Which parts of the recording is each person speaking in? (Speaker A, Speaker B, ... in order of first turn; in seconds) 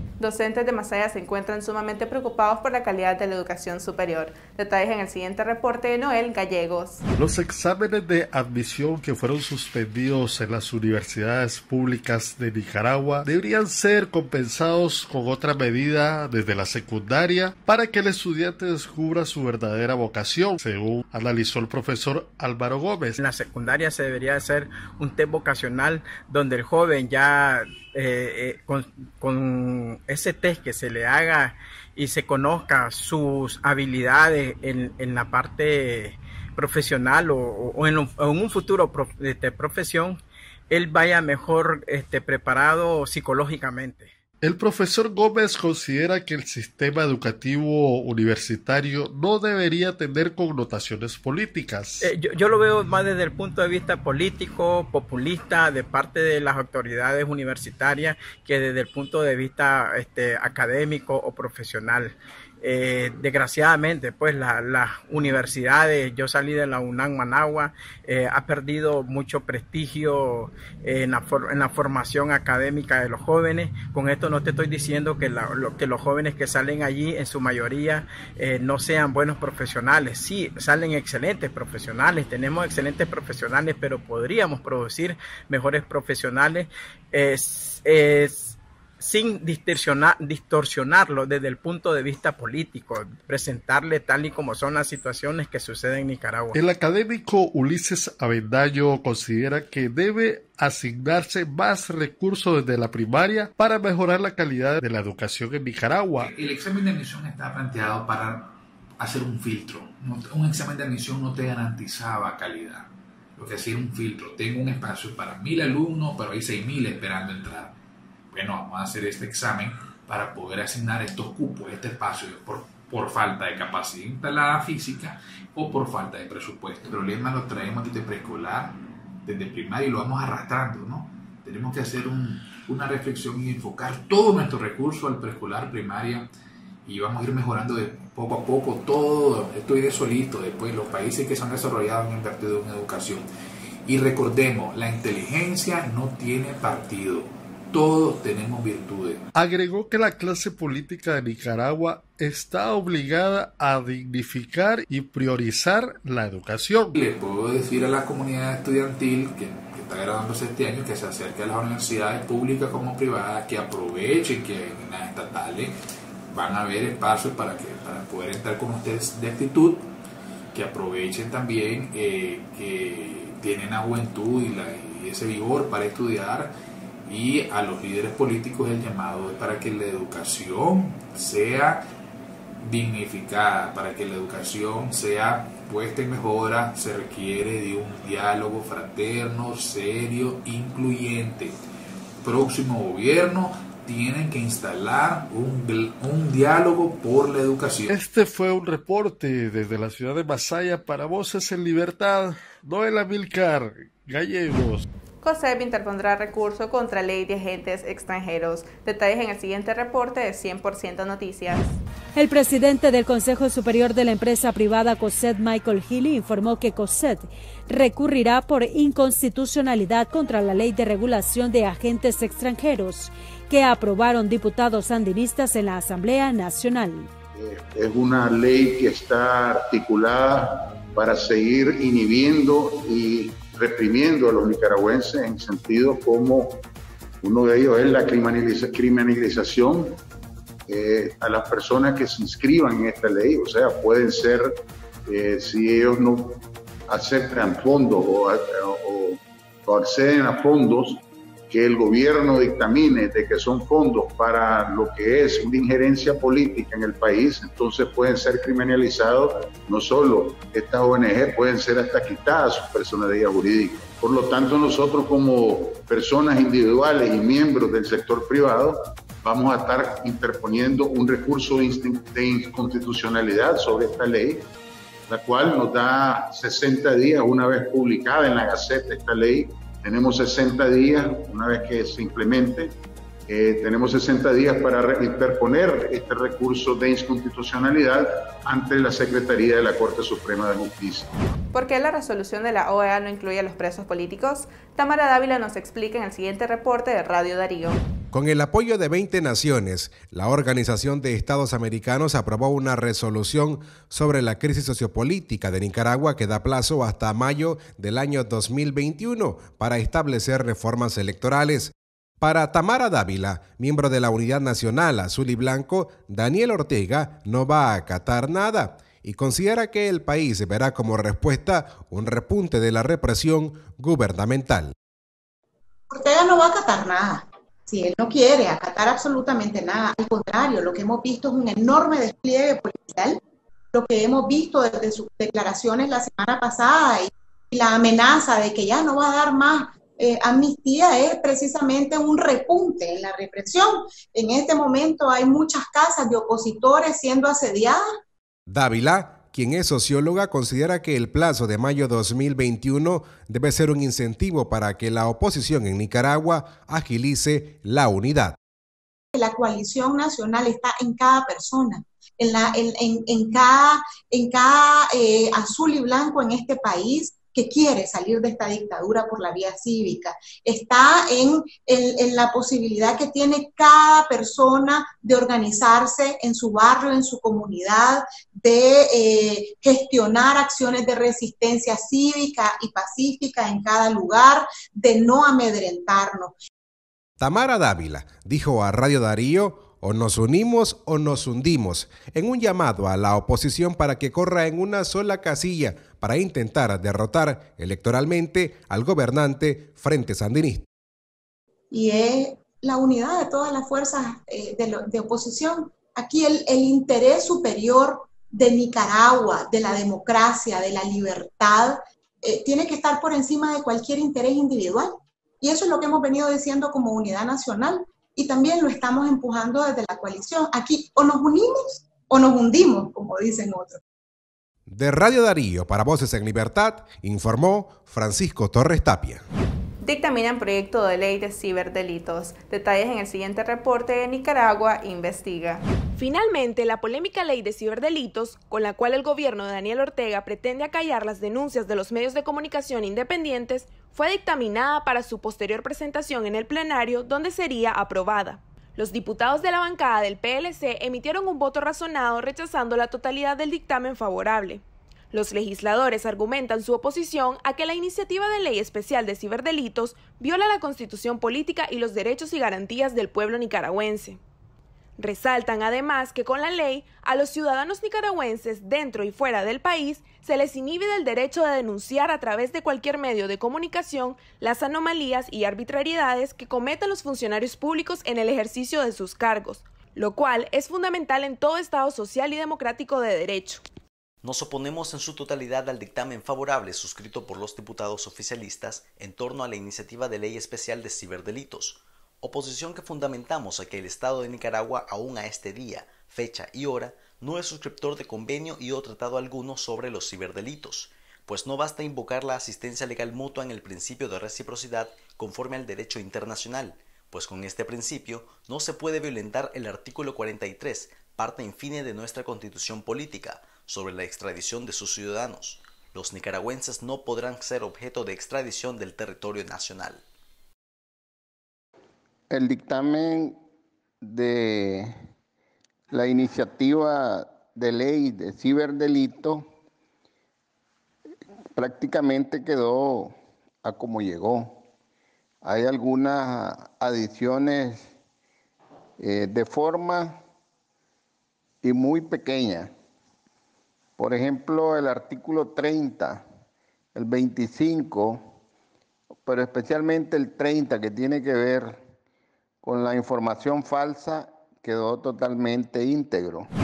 Speaker A: 0.2-7.0, 205.2-211.8, 291.5-297.8, 429.8-435.6
Speaker B: 7.2-23.2, 44.4-52.1, 96.5-106.3, 149.3-157.0, 197.9-204.8
Speaker C: 23.2-44.1, 52.0-96.6
Speaker D: 106.2-117.7, 118.3-136.3, 136.9-143.2, 143.9-149.2, 156.9-165.7, 166.3-169.8, 170.5-176.5, 177.1-181.8, 182.6-191.5, 192.2-197.9
Speaker E: 212.2-227.1
Speaker F: 227.3-236.6, 237.2-240.0, 240.7-244.5, 245.1-274.5, 275.1-282.7, 283.3-291.1
Speaker G: 298.1-324.7, 348.5-358.4, 387.2-400.6, 424.7-429.2
Speaker H: 325.9-333.2, 333.7-347.8, 359.1-386.3, 401.7-423.8
Speaker I: 436.0-464.2, 465.0-483.6
Speaker J: 484.2-520.0
Speaker K: 522.3-523.4, 524.0-525.0, 525.9-529.5, 531.5-534.6, 535.4-537.9, 539.0-540.2, 541.6-542.7, 544.0-546.2, 547.0-548.3, 549.2-551.8, 552.6-556.5